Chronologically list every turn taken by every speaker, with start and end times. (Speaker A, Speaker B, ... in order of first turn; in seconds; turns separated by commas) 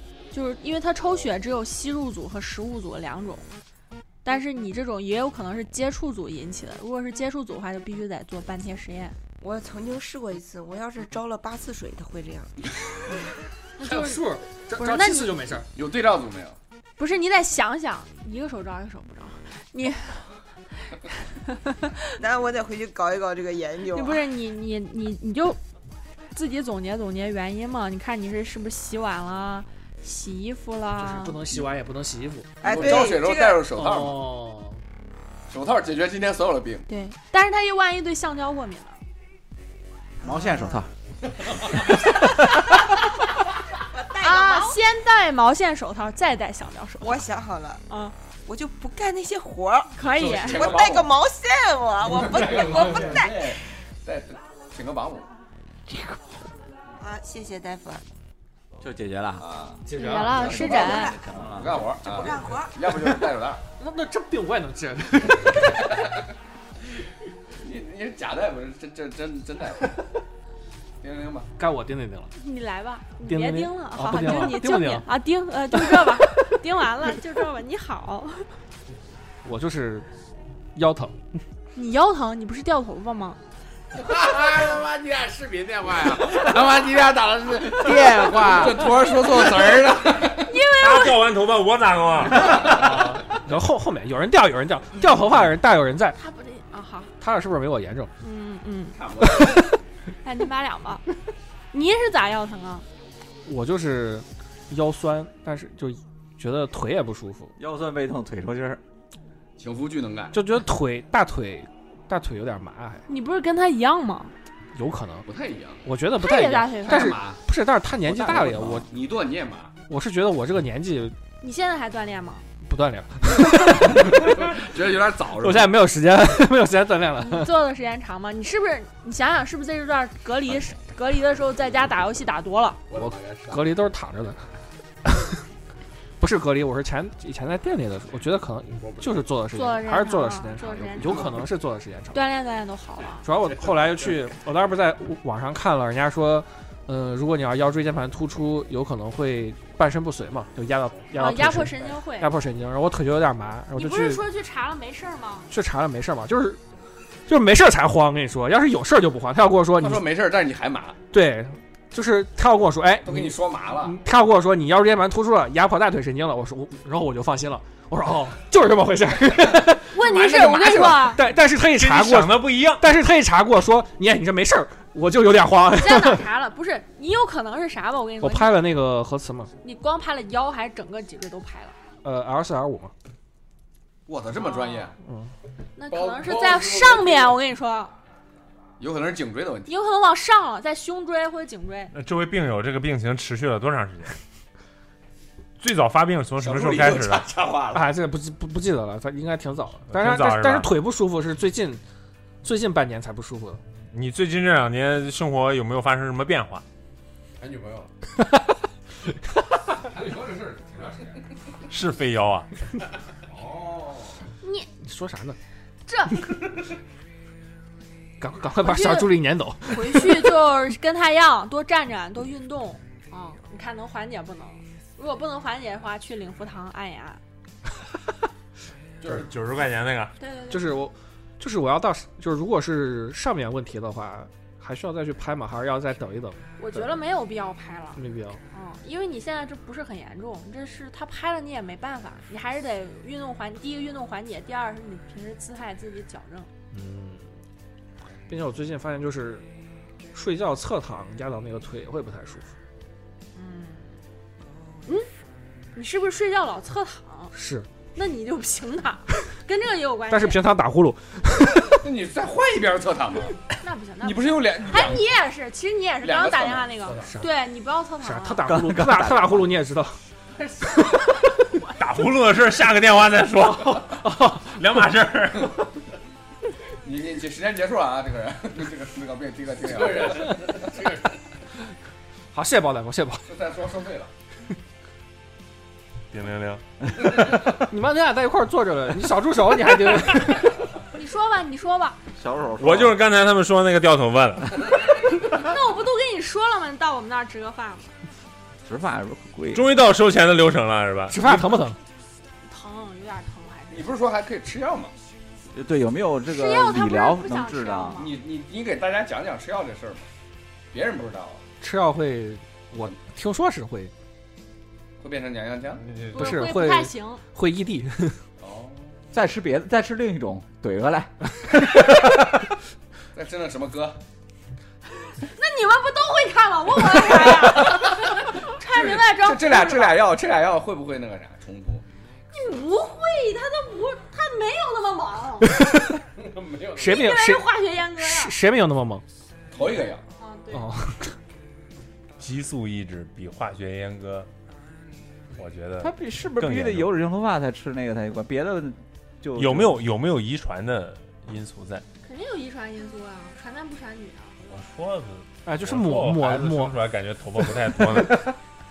Speaker A: 0.3-3.5, Speaker A: 4.2-9.2, Speaker B: 9.4-12.5, Speaker A: 13.8-15.3, Speaker C: 13.8-15.7, Speaker D: 15.7-16.6, Speaker A: 17.0-20.3, Speaker A: 20.9-22.1, Speaker B: 22.2-24.2, Speaker A: 23.9-25.6, Speaker A: 26.3-31.4, Speaker C: 31.0-33.0, Speaker B: 32.6-33.6, Speaker D: 32.6-34.3, Speaker C: 33.7-34.8, Speaker D: 35.5-36.8, Speaker A: 36.9-39.0, Speaker B: 40.2-40.8, Speaker E: 40.2-40.9, Speaker E: 41.7-42.7, Speaker B: 43.8-44.8, Speaker A: 44.2-47.2, Speaker B: 47.0-47.8, Speaker A: 47.9-48.1, Speaker B: 48.5-53.6, Speaker A: 50.0-50.7, Speaker D: 50.2-51.1, Speaker D: 52.0-55.3, Speaker E: 55.9-56.2, Speaker B: 57.0-58.0, Speaker E: 58.8-59.4, Speaker D: 59.4-59.8, Speaker C: 59.8-60.8, Speaker A: 59.9-61.1, Speaker E: 60.3-61.8, Speaker D: 60.5-63.6, Speaker B: 62.0-62.8, Speaker C: 63.8-65.8, Speaker D: 67.6-70.0, Speaker D: 71.0-71.5, Speaker C: 71.6-72.3, Speaker A: 72.4-78.5, Speaker C: 73.2-75.1, Speaker C: 75.8-76.2, Speaker C: 79.4-80.1, Speaker C: 80.7-81.1, Speaker A: 81.7-83.4, Speaker D: 84.0-86.9, Speaker F: 84.1-89.0, Speaker D: 87.5-90.5, Speaker C: 88.2-88.7, Speaker A: 90.4-91.2, Speaker G: 90.8-92.7, Speaker C: 92.4-96.2, Speaker A: 96.2-97.1, Speaker C: 97.2-98.1, Speaker A: 98.2-99.5, Speaker D: 98.9-99.7, Speaker A: 100.2-101.0, Speaker A: 101.7-102.8, Speaker C: 103.4-107.5, Speaker E: 107.6-108.8, Speaker D: 109.6-110.3, Speaker C: 110.3-113.0, Speaker A: 113.1-114.3, Speaker C: 114.7-115.2, Speaker D: 115.2-115.8, Speaker C: 115.8-118.9, Speaker A: 116.2-117.2, Speaker D: 116.8-117.4, Speaker E: 118.1-118.8, Speaker D: 118.1-119.7, Speaker C: 119.9-121.2, Speaker A: 121.4-122.5, Speaker C: 122.6-124.5, Speaker D: 124.1-125.7, Speaker C: 125.3-127.5, Speaker A: 127.2-132.8, Speaker D: 132.9-133.7, Speaker C: 132.9-134.4, Speaker C: 135.1-135.3, Speaker C: 136.2-142.2, Speaker A: 139.5-141.3, Speaker A: 142.1-143.2, Speaker C: 143.2-154.2, Speaker D: 143.6-144.0, Speaker A: 151.1-152.3, Speaker A: 153.7-155.5, Speaker C: 155.5-156.6, Speaker C: 157.3-160.1, Speaker D: 159.8-161.0, Speaker C: 161.1-169.9, Speaker D: 163.0-164.0, Speaker A: 169.9-171.2, Speaker D: 170.0-171.2, Speaker C: 170.8-176.2, Speaker G: 171.7-172.9, Speaker A: 175.8-178.6, Speaker C: 178.2-179.5, Speaker A: 179.6-181.8, Speaker C: 182.0-182.9, Speaker D: 184.1-184.9, Speaker A: 184.3-184.9, Speaker C: 185.0-185.3, Speaker A: 185.8-187.9, Speaker D: 185.9-187.3, Speaker D: 188.8-189.7, Speaker A: 189.7-191.9, Speaker G: 191.9-194.2, Speaker G: 195.6-197.3, Speaker D: 196.4-197.9, Speaker C: 197.7-201.8, Speaker G: 199.9-200.7, Speaker C: 202.4-203.6, Speaker G: 203.9-206.6, Speaker F: 207.4-207.9, Speaker D: 209.9-211.2, Speaker G: 211.7-212.5, Speaker D: 213.3-214.1, Speaker A: 214.4-214.7, Speaker C: 214.8-215.4, Speaker A: 215.9-216.2, Speaker C: 218.2-220.3, Speaker A: 218.6-219.1, Speaker A: 219.7-227.2, Speaker G: 229.0-230.1, Speaker A: 230.2-230.7, Speaker C: 230.5-236.4, Speaker A: 236.6-246.5, Speaker C: 237.9-238.4, Speaker C: 246.7-247.3, Speaker C: 248.3-249.4, Speaker C: 250.1-252.5, Speaker A: 253.3-253.9, Speaker A: 255.7-257.3, Speaker C: 257.3-257.7, Speaker A: 257.9-260.4, Speaker C: 260.1-261.8, Speaker D: 261.8-263.4, Speaker A: 263.4-268.4, Speaker D: 264.0-265.1, Speaker D: 266.0-267.1, Speaker C: 267.0-267.3, Speaker C: 268.0-270.0, Speaker E: 268.4-269.5, Speaker A: 270.4-271.7, Speaker G: 271.8-275.5, Speaker C: 273.4-274.5, Speaker D: 276.8-281.0, Speaker C: 282.3-283.2, Speaker D: 283.3-284.1, Speaker G: 286.1-286.6, Speaker C: 287.4-290.5, Speaker A: 290.9-292.0, Speaker E: 292.2-293.0, Speaker G: 292.6-294.8, Speaker A: 295.1-297.9, Speaker E: 298.6-299.7, Speaker G: 299.5-301.4, Speaker C: 301.1-301.8, Speaker A: 302.4-303.9, Speaker D: 303.7-304.9, Speaker E: 305.5-308.1, Speaker A: 306.3-308.1, Speaker D: 308.0-310.1, Speaker D: 310.7-311.4, Speaker C: 311.6-313.9, Speaker D: 315.0-316.4, Speaker C: 316.1-318.2, Speaker A: 316.1-317.2, Speaker D: 318.4-319.0, Speaker E: 319.1-322.4, Speaker D: 323.1-324.0, Speaker A: 325.1-330.0, Speaker D: 327.2-331.8, Speaker A: 332.3-335.6, Speaker C: 335.4-336.0, Speaker D: 336.2-337.1, Speaker C: 336.7-339.0, Speaker A: 336.8-338.3, Speaker D: 339.5-340.0, Speaker A: 340.2-340.7, Speaker C: 340.5-341.1, Speaker G: 342.2-344.3, Speaker G: 345.3-346.9, Speaker E: 345.8-349.8, Speaker G: 349.4-351.8, Speaker A: 352.0-354.4, Speaker G: 354.4-358.3, Speaker C: 355.4-356.8